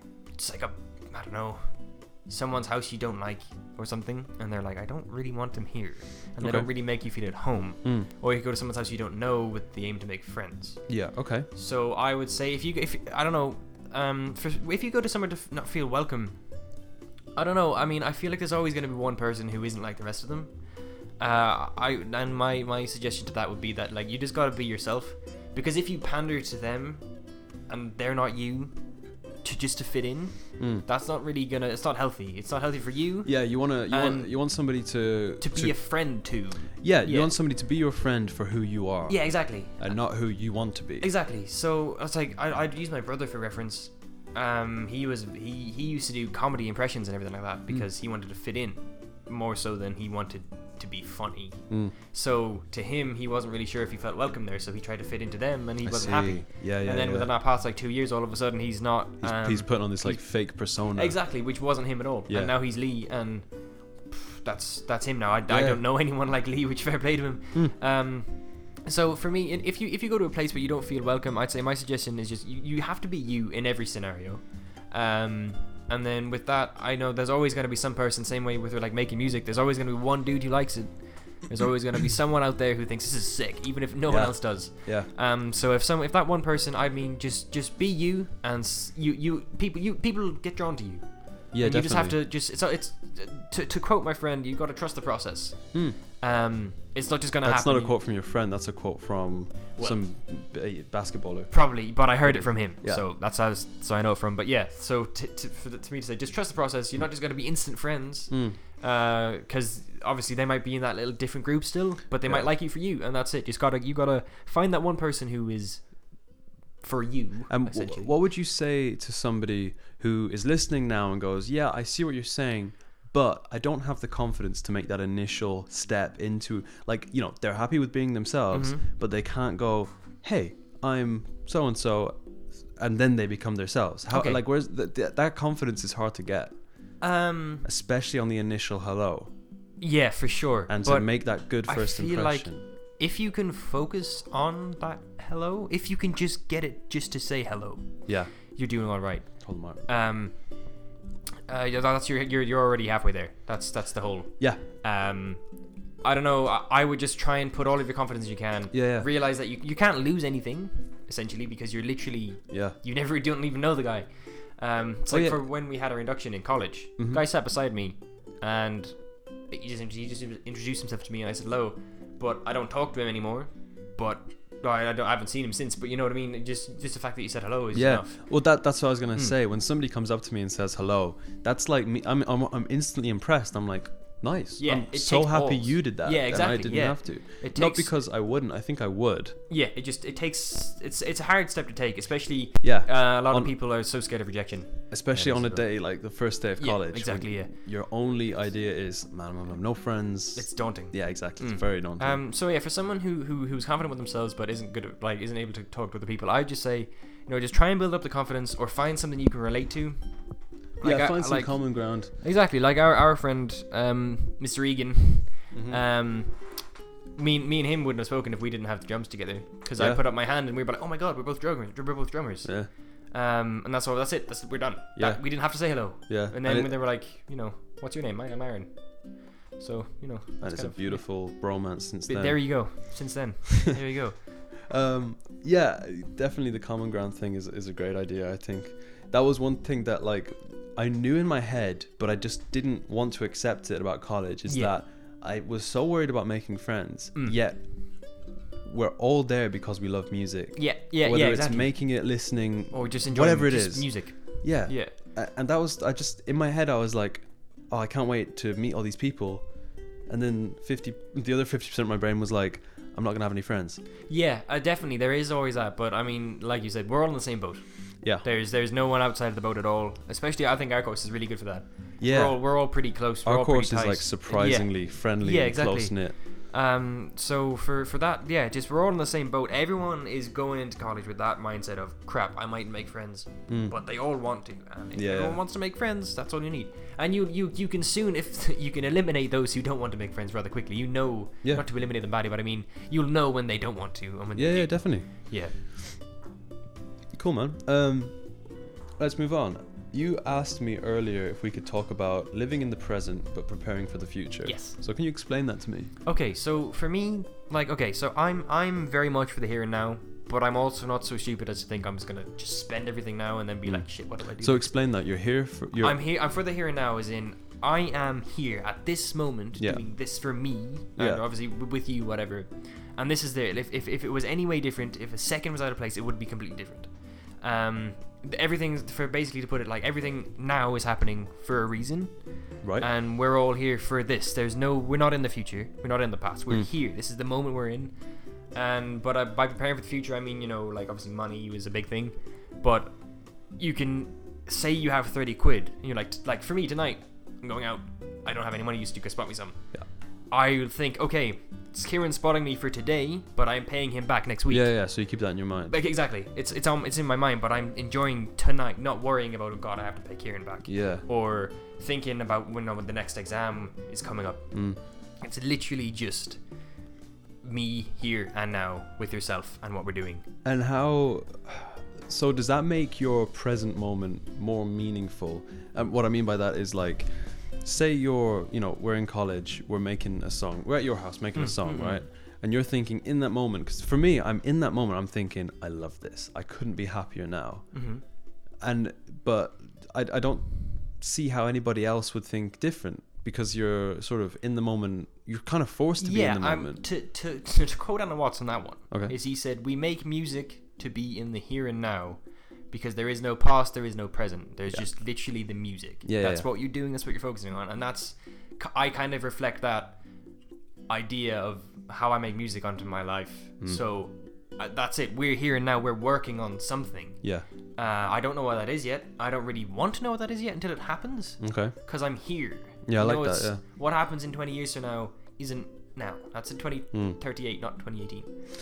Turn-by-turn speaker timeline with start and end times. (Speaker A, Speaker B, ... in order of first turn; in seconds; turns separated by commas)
Speaker A: 0.3-10.9, Speaker B: 6.4-6.7, Speaker B: 10.9-11.5, Speaker A: 11.5-16.4, Speaker A: 17.3-20.6, Speaker A: 21.2-27.1, Speaker A: 27.7-28.7, Speaker A: 29.4-34.3, Speaker B: 30.6-30.8, Speaker B: 33.2-41.1, Speaker A: 35.4-37.3, Speaker A: 39.1-40.0, Speaker A: 41.0-63.5, Speaker B: 51.7-51.9, Speaker B: 55.8-57.3, Speaker B: 59.2-61.2, Speaker B: 62.3-62.5, Speaker A: 64.1-97.9, Speaker B: 65.5-65.8, Speaker B: 84.1-85.1, Speaker B: 91.5-92.2, Speaker B: 95.7-96.0, Speaker B: 97.4-103.0, Speaker A: 101.5-116.2, Speaker B: 108.3-108.6, Speaker A: 116.8-118.1, Speaker B: 117.5-132.2, Speaker A: 128.5-128.9, Speaker B: 132.7-136.6, Speaker A: 134.1-134.4, Speaker A: 137.0-137.7, Speaker B: 137.6-139.3, Speaker A: 139.8-150.4, Speaker B: 140.7-142.6, Speaker B: 148.1-148.3, Speaker B: 149.4-149.8, Speaker A: 151.5-155.4, Speaker A: 156.0-178.2, Speaker B: 158.7-159.1, Speaker B: 162.5-162.8, Speaker B: 165.1-165.4, Speaker B: 167.0-167.2, Speaker B: 177.7-189.4, Speaker A: 184.6-187.9, Speaker A: 189.5-195.9, Speaker B: 192.6-193.5, Speaker B: 194.9-202.2, Speaker A: 196.6-197.5, Speaker A: 200.3-231.1, Speaker B: 210.8-212.1, Speaker B: 215.5-215.8, Speaker B: 219.8-220.0, Speaker B: 222.4-222.7, Speaker B: 224.9-226.8, Speaker B: 230.4-232.9, Speaker A: 232.1-234.2, Speaker B: 234.6-259.5, Speaker A: 244.5-244.7, Speaker A: 250.6-251.9, Speaker A: 252.7-254.9, Speaker B: 260.1-263.8, Speaker A: 264.1-295.5, Speaker B: 272.0-276.2, Speaker B: 283.5-283.7, Speaker B: 284.9-285.4, Speaker B: 294.4-295.3, Speaker B: 297.1-305.9, Speaker A: 304.4-304.8, Speaker A: 306.0-314.7, Speaker B: 313.6-316.0, Speaker A: 315.8-354.7, Speaker B: 319.6-319.8, Speaker B: 321.0-321.2, Speaker B: 332.6-332.9, Speaker B: 354.5-355.7, Speaker A: 355.7-364.5, Speaker B: 360.6-361.1, Speaker B: 364.5-364.8, Speaker A: 365.2-366.4, Speaker A: 367.4-370.2, Speaker B: 370.4-387.8, Speaker A: 381.3-382.0, Speaker A: 387.7-388.0, Speaker B: 388.6-396.8, Speaker A: 396.0-410.0, Speaker B: 398.9-399.2, Speaker B: 406.0-406.5, Speaker A: 410.9-417.2, Speaker A: 417.8-428.3, Speaker B: 421.4-421.7, Speaker B: 422.9-423.6, Speaker B: 426.9-427.2